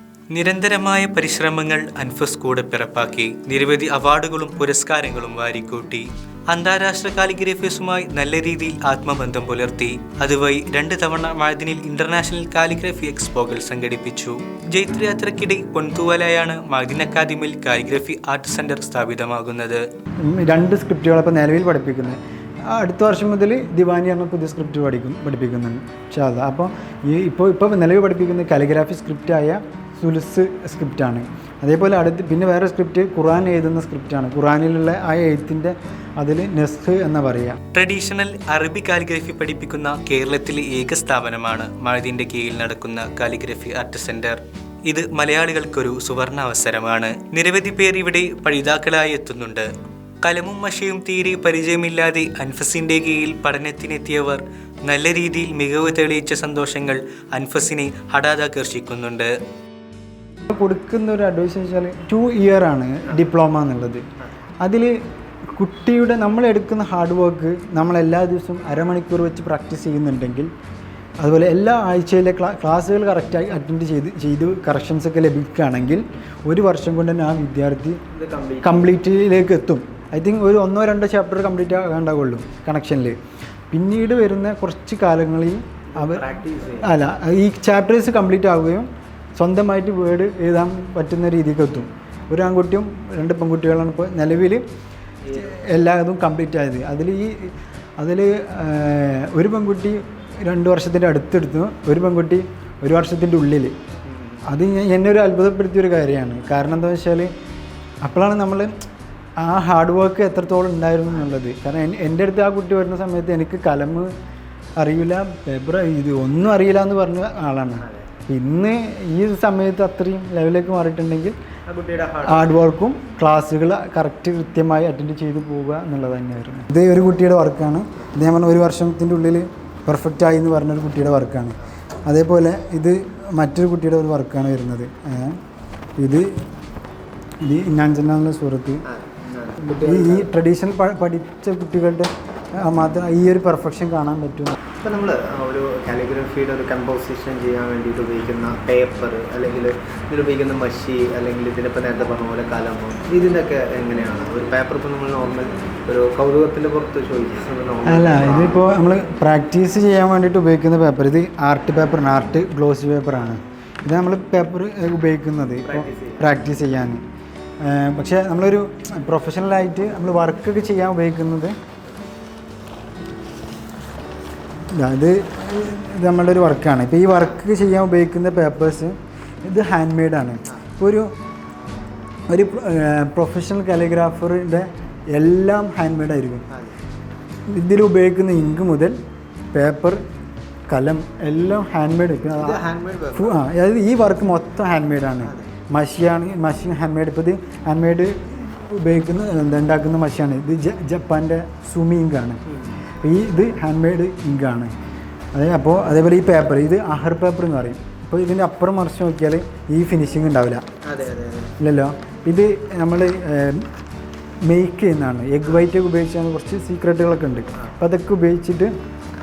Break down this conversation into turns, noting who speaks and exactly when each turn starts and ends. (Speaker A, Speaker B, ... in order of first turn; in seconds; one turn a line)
Speaker A: 0.3-19.8
Speaker B: 20.2-37.6
Speaker A: 37.7-49.7
Speaker A: 50.2-59.3
Speaker B: 60.5-64.0
Speaker B: 64.6-65.0
Speaker B: 65.5-70.5
Speaker B: 71.2-78.0
Speaker C: 78.1-79.0
Speaker B: 78.6-83.2
Speaker B: 83.7-94.6
Speaker C: 85.9-86.9
Speaker C: 95.2-95.5
Speaker B: 95.3-103.8
Speaker C: 104.1-104.4
Speaker B: 104.5-107.3
Speaker B: 108.0-108.7
Speaker B: 109.4-114.1
Speaker B: 114.8-121.4
Speaker C: 121.7-122.6
Speaker B: 122.2-135.4
Speaker B: 136.0-136.4
Speaker B: 137.4-138.8
Speaker C: 138.9-140.3
Speaker B: 139.7-144.6
Speaker C: 144.7-158.7
Speaker B: 157.8-167.0
Speaker C: 165.7-166.3
Speaker B: 167.6-171.6
Speaker B: 174.7-181.1
Speaker B: 182.3-186.5
Speaker B: 187.5-189.0
Speaker B: 189.5-190.0
Speaker B: 190.7-202.4
Speaker C: 192.3-193.4
Speaker B: 203.0-204.7
Speaker B: 205.3-210.6
Speaker C: 210.9-211.5
Speaker B: 211.6-213.7
Speaker B: 214.4-218.7